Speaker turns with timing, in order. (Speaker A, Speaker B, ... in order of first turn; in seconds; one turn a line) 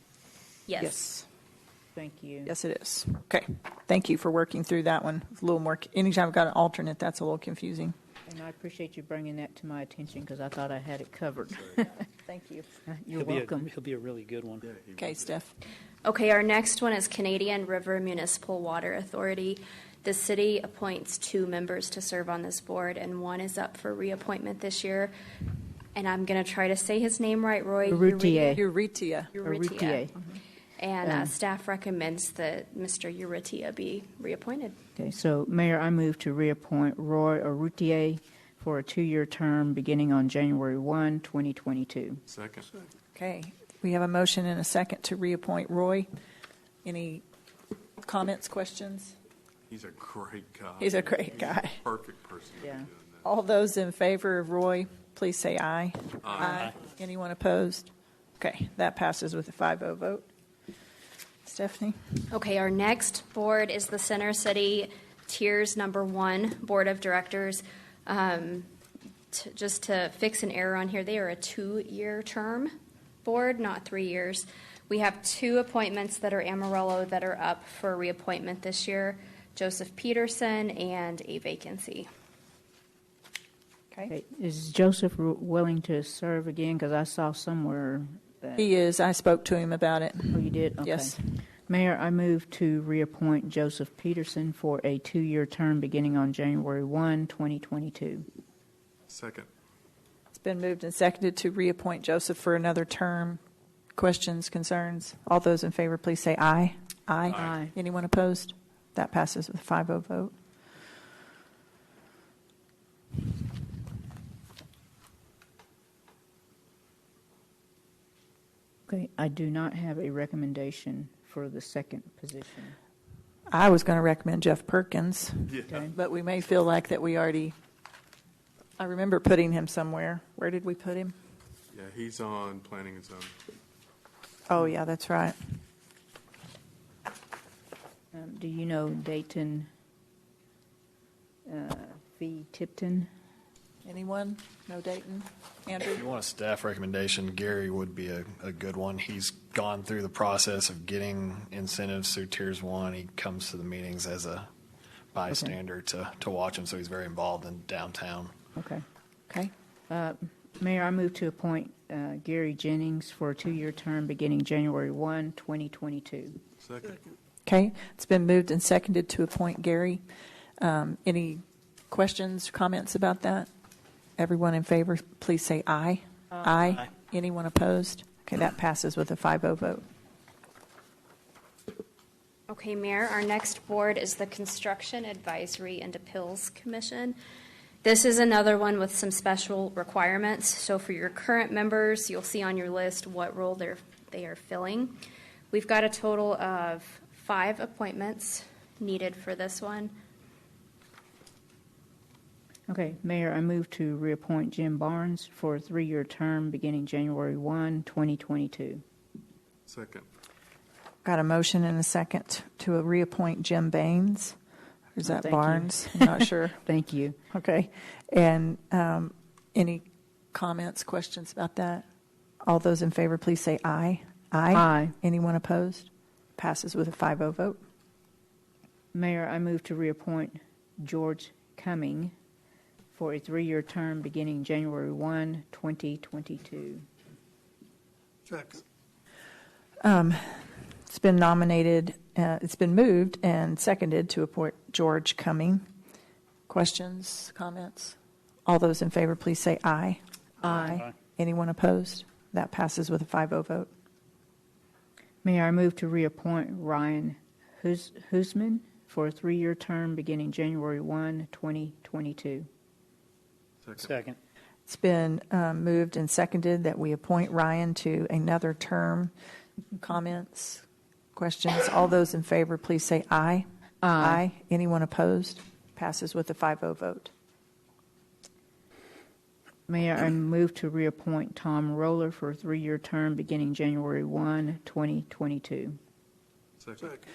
Speaker A: 0.7-1.0
Speaker B: 0.8-1.2
Speaker C: 1.9-2.5
Speaker B: 2.5-7.9
Speaker C: 8.3-12.1
Speaker B: 12.3-12.6
Speaker C: 12.8-13.7
Speaker D: 13.1-14.7
Speaker E: 14.6-15.4
Speaker B: 15.0-15.5
Speaker A: 16.0-25.1
Speaker A: 25.9-28.6
Speaker C: 27.9-28.6
Speaker B: 28.5-29.3
Speaker A: 29.4-30.1
Speaker C: 29.4-30.4
Speaker A: 30.8-34.7
Speaker C: 31.0-31.3
Speaker C: 35.0-42.2
Speaker E: 42.3-42.7
Speaker B: 43.1-46.1
Speaker B: 46.8-47.2
Speaker B: 48.0-49.1
Speaker E: 49.7-53.3
Speaker B: 50.8-51.8
Speaker C: 52.6-52.9
Speaker B: 53.2-60.2
Speaker E: 56.2-56.7
Speaker D: 56.5-56.7
Speaker B: 61.4-62.0
Speaker A: 62.3-68.7
Speaker A: 69.3-72.7
Speaker A: 73.2-82.1
Speaker C: 84.1-88.7
Speaker B: 88.6-91.2
Speaker C: 90.3-98.2
Speaker E: 99.1-99.5
Speaker B: 100.3-103.4
Speaker B: 103.9-110.3
Speaker E: 107.3-107.6
Speaker C: 107.3-107.7
Speaker C: 118.9-122.8
Speaker B: 123.5-127.5
Speaker C: 125.7-125.9
Speaker B: 128.8-131.1
Speaker E: 131.7-133.3
Speaker B: 134.5-135.4
Speaker C: 138.1-139.7
Speaker C: 141.4-143.1
Speaker B: 143.8-146.0
Speaker F: 145.9-154.5
Speaker F: 155.1-158.3
Speaker C: 155.3-155.6
Speaker C: 158.6-158.8
Speaker C: 159.9-166.4
Speaker E: 166.6-167.0
Speaker B: 167.4-170.0
Speaker B: 170.6-173.5
Speaker B: 174.2-179.8
Speaker A: 182.5-187.2
Speaker A: 187.8-195.0
Speaker A: 195.5-199.9
Speaker C: 202.7-208.8
Speaker E: 209.7-210.1
Speaker B: 211.0-214.3
Speaker B: 214.9-216.6
Speaker C: 215.0-217.2
Speaker B: 217.3-221.8
Speaker B: 222.4-227.6
Speaker C: 224.5-224.9
Speaker C: 228.9-232.1
Speaker C: 232.9-236.8
Speaker B: 239.8-245.6
Speaker B: 246.5-253.7
Speaker C: 255.2-262.5
Speaker E: 263.6-264.0
Speaker D: 263.8-264.2
Speaker B: 264.7-269.1
Speaker B: 269.7-273.4
Speaker C: 273.8-274.2
Speaker B: 274.0-277.1
Speaker C: 279.7-285.8
Speaker E: 286.6-287.0